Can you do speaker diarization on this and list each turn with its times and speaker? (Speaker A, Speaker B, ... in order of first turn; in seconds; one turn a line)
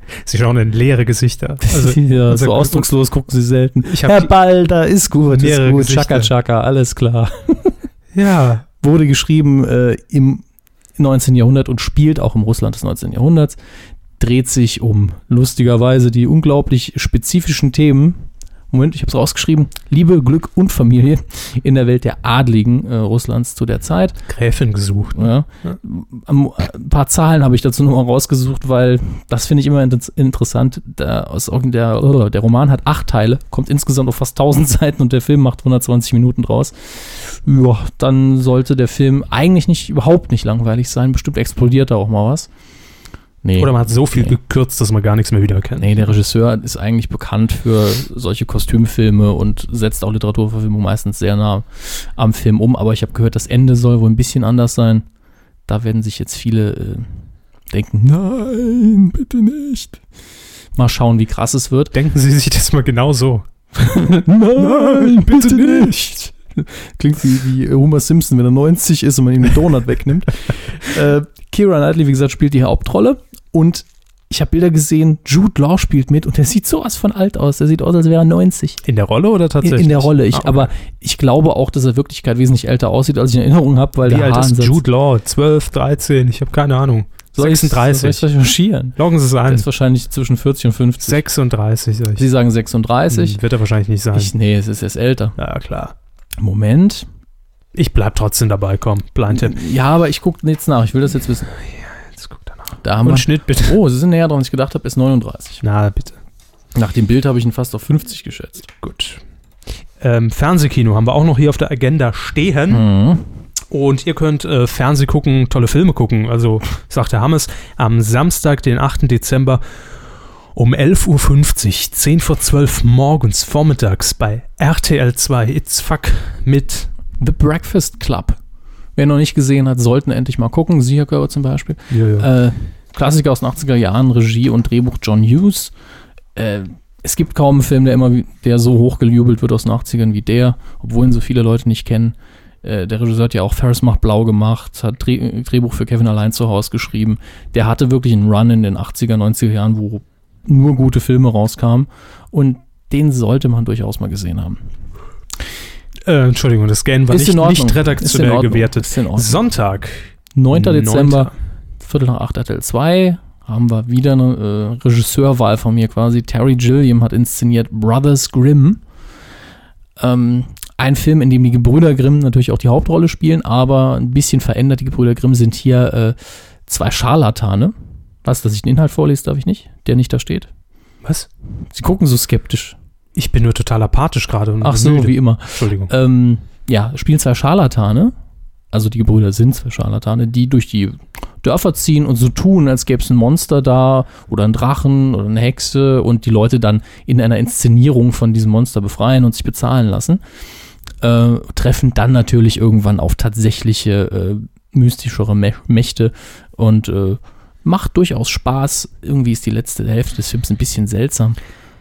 Speaker A: 0.2-2.9
Speaker B: 1.6-7.8
Speaker A: 3.9-4.3
Speaker A: 5.3-6.3
Speaker A: 8.1-8.7
Speaker B: 8.8-10.4
Speaker B: 11.0-13.6
Speaker B: 14.2-18.2
Speaker B: 18.7-24.2
Speaker A: 24.3-25.8
Speaker B: 25.1-42.5
Speaker B: 43.4-44.4
Speaker A: 43.6-45.9
Speaker B: 45.8-55.1
Speaker B: 55.7-57.1
Speaker B: 57.7-60.0
Speaker B: 60.8-61.9
Speaker A: 61.9-63.5
Speaker B: 63.8-78.8
Speaker A: 64.6-66.1
Speaker A: 78.8-80.7
Speaker B: 79.6-84.8
Speaker A: 84.0-88.3
Speaker B: 87.3-91.2
Speaker A: 89.0-89.7
Speaker A: 91.0-92.3
Speaker B: 92.2-93.4
Speaker A: 93.1-94.3
Speaker B: 94.1-95.4
Speaker A: 95.4-95.9
Speaker B: 96.4-97.1
Speaker A: 97.7-99.6
Speaker B: 99.3-101.5
Speaker A: 102.1-103.8
Speaker B: 102.8-105.6
Speaker A: 105.6-106.2
Speaker B: 106.8-108.7
Speaker A: 108.8-109.2
Speaker A: 110.0-112.8
Speaker B: 112.7-113.2
Speaker A: 113.7-119.6
Speaker A: 120.5-126.9
Speaker B: 127.2-128.4
Speaker B: 129.0-135.7
Speaker A: 131.9-132.3
Speaker B: 136.3-154.6
Speaker A: 156.1-161.3
Speaker B: 157.1-159.4
Speaker B: 160.3-168.8
Speaker B: 170.0-180.5
Speaker A: 181.0-181.3
Speaker B: 181.7-182.8
Speaker A: 183.2-185.9
Speaker B: 184.6-188.1
Speaker B: 188.7-200.2
Speaker B: 201.0-211.4